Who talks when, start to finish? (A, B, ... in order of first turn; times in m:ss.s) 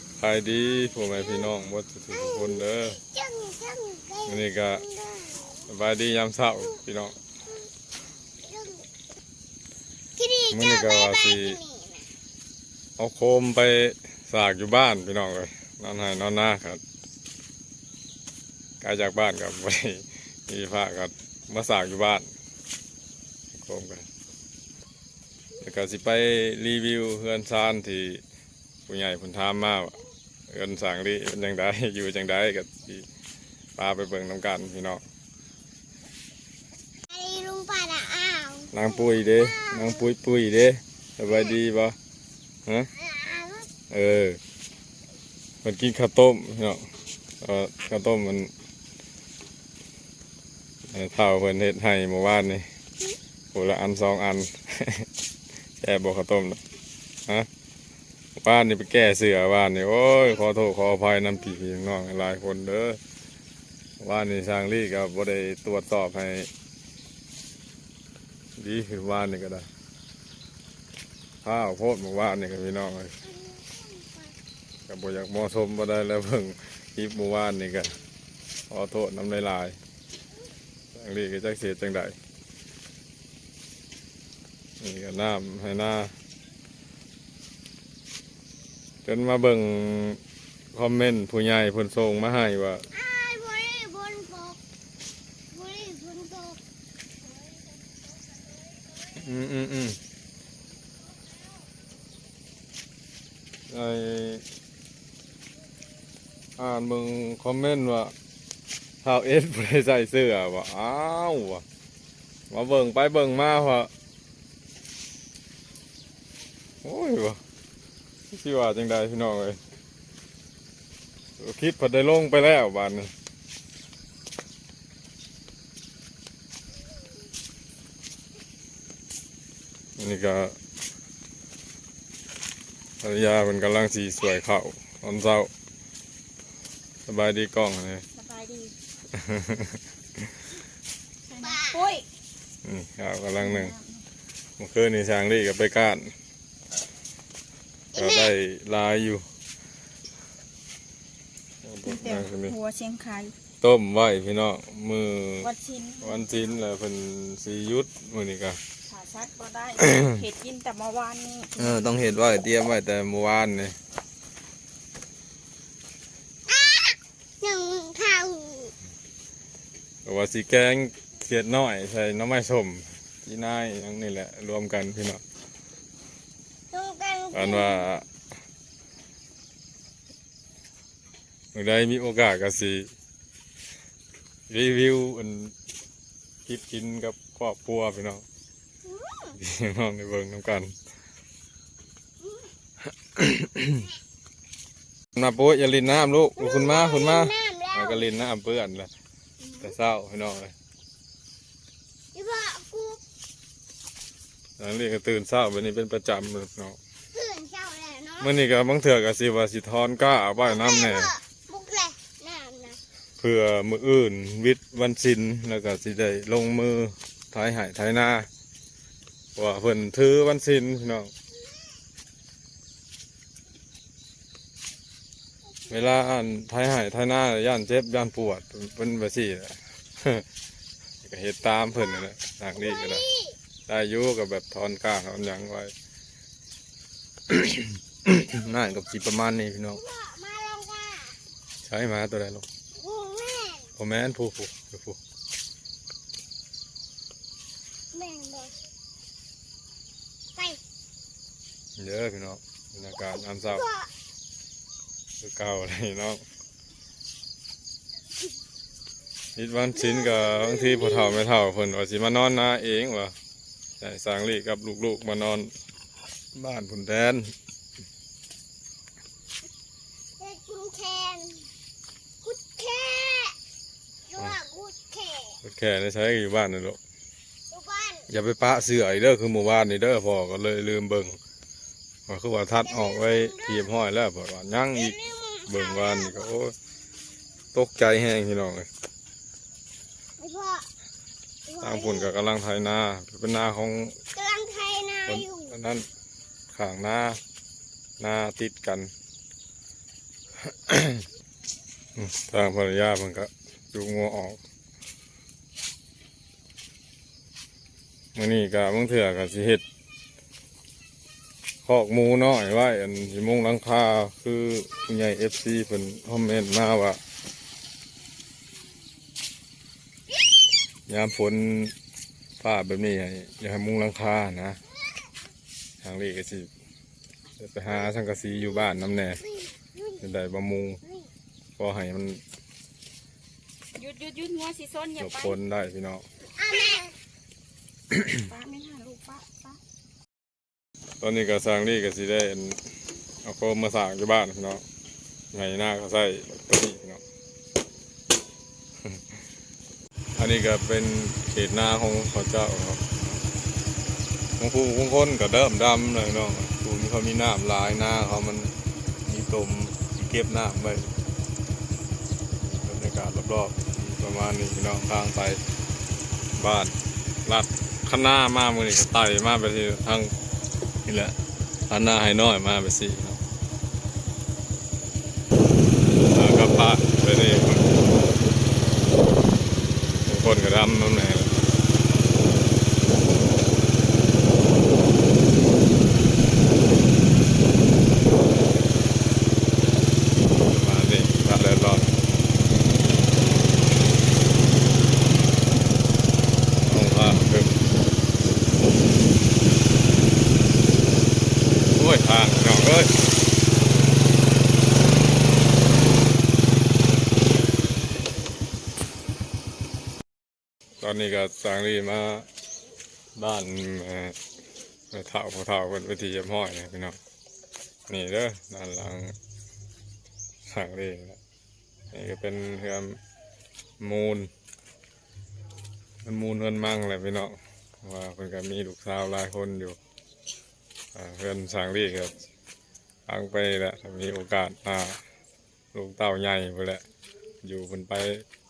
0:00.2-0:03.0 A
0:00.8-0:01.5 B
0:02.1-0:05.6 B
0:04.2-0:04.8 A
0:05.7-0:07.1 A
0:08.4-0:08.8 B
0:10.2-0:12.1 B
0:10.5-0:11.6 A
0:13.0-0:16.8 A
0:18.8-0:22.3 A
0:23.5-0:24.0 A
0:25.6-0:28.2 A
0:28.9-0:30.0 A
0:30.5-0:33.0 A
0:33.8-0:35.0 A
0:37.1-0:40.0 B
0:38.7-0:42.0 A
0:41.2-0:41.5 B
0:42.9-0:43.7 B
0:43.9-0:44.4 A
0:45.6-0:46.8 A
0:47.4-0:48.5 A
0:50.9-0:52.7 A
0:53.5-0:55.1 A
0:55.8-0:56.6 A
0:58.4-1:03.0 A
1:04.0-1:06.5 A
1:08.6-1:09.7 A
1:11.4-1:13.2 A
1:13.2-1:14.3 B
1:14.9-1:17.9 A
1:18.7-1:19.8 A
1:20.9-1:22.2 A
1:24.8-1:26.1 A
1:29.0-1:30.2 A
1:30.7-1:32.8 A
1:32.9-1:34.6 B
1:35.5-1:36.6 B
1:39.1-1:40.0 A
1:43.7-1:44.4 A
1:46.6-1:48.1 A
1:49.0-1:51.6 A
1:52.5-1:53.9 A
1:56.8-1:57.4 A
1:58.3-1:59.6 A
2:01.4-2:03.1 A
2:10.0-2:10.5 A
2:13.0-2:15.5 A
2:17.0-2:18.0 A
2:18.1-2:18.7 C
2:19.1-2:20.3 A
2:21.3-2:21.8 B
2:21.3-2:22.0 C
2:22.6-2:23.8 A
2:23.4-2:23.8 C
2:24.6-2:26.1 A
2:27.9-2:28.3 B
2:27.9-2:29.2 A
2:31.6-2:32.6 A
2:31.8-2:33.3 C
2:33.6-2:38.6 A
2:35.4-2:36.3 C
2:38.8-2:41.7 C
2:39.8-2:40.1 A
2:41.6-2:43.8 A
2:46.5-2:48.7 B
2:50.0-2:55.2 A
2:56.7-2:57.8 B
2:57.3-2:58.0 A
3:01.5-3:02.9 A
3:04.5-3:05.5 A
3:06.4-3:08.2 A
3:08.8-3:09.4 B
3:09.4-3:10.7 A
3:12.2-3:12.5 B
3:13.1-3:13.9 A
3:15.1-3:18.9 A
3:16.4-3:18.0 B
3:19.6-3:20.5 A
3:22.1-3:23.0 B
3:24.6-3:26.8 A
3:27.1-3:28.3 B
3:28.2-3:31.1 A
3:30.4-3:32.8 B
3:33.2-3:38.3 A
3:39.3-3:41.1 A
3:45.7-3:50.2 A
3:51.0-3:53.0 A
3:52.6-3:53.4 B
3:53.7-3:55.7 A
3:57.3-3:59.8 A
3:59.8-4:01.2 B
4:01.6-4:02.4 A
4:02.7-4:03.7 B
4:03.8-4:05.0 A
4:07.9-4:08.6 B
4:11.8-4:13.6 A
4:13.4-4:13.9 B
4:15.2-4:16.2 A
4:19.4-4:23.1 A
4:19.8-4:21.2 B
4:23.8-4:25.5 A
4:26.3-4:27.3 A
4:30.2-4:31.5 B
4:32.2-4:33.4 B
4:34.1-4:35.4 B
4:35.4-4:36.8 A
4:37.5-4:38.1 B
4:38.1-4:41.2 A
4:42.1-4:45.0 A
4:42.6-4:43.7 B
4:44.7-4:46.2 B
4:45.5-4:46.5 A
4:47.5-4:48.7 A
4:50.2-4:50.7 B
4:51.5-4:52.2 B
4:51.6-4:54.0 A
4:54.1-4:55.6 B
4:55.1-4:55.8 A
4:56.5-4:57.2 A
4:58.0-4:58.9 A
5:00.4-5:01.0 A
5:02.0-5:04.4 A
5:08.1-5:09.6 A
5:11.6-5:17.0 A
5:20.9-5:21.7 A
5:22.4-5:24.6 A
5:25.8-5:26.5 A
5:27.4-5:29.2 A
5:29.4-5:30.0 B
5:30.0-5:30.8 A
5:31.6-5:32.2 A
5:33.7-5:35.4 C
5:35.0-5:36.0 A
5:36.4-5:36.9 B
5:37.9-5:38.2 A
5:38.1-5:39.6 C
5:41.0-5:42.6 A
5:43.2-5:44.6 A
5:45.3-5:47.0 A
5:50.2-5:53.2 A
5:54.4-5:58.5 A
5:59.0-6:00.9 A
6:02.4-6:05.4 A
6:06.4-6:10.1 A
6:10.8-6:11.2 A
6:11.7-6:13.2 A
6:16.0-6:17.8 A
6:20.0-6:21.4 A
6:30.4-6:31.9 A
6:36.6-6:37.6 A
6:41.7-6:43.0 A
6:50.8-6:52.3 A
6:53.1-6:54.2 A
6:54.9-6:57.0 A
6:57.9-6:59.2 A
7:00.4-7:01.2 A
7:01.9-7:03.0 A
7:03.8-7:04.3 A
7:06.0-7:09.8 A
7:10.9-7:12.1 A
7:13.1-7:15.0 A
7:15.7-7:16.8 A
7:17.4-7:18.2 A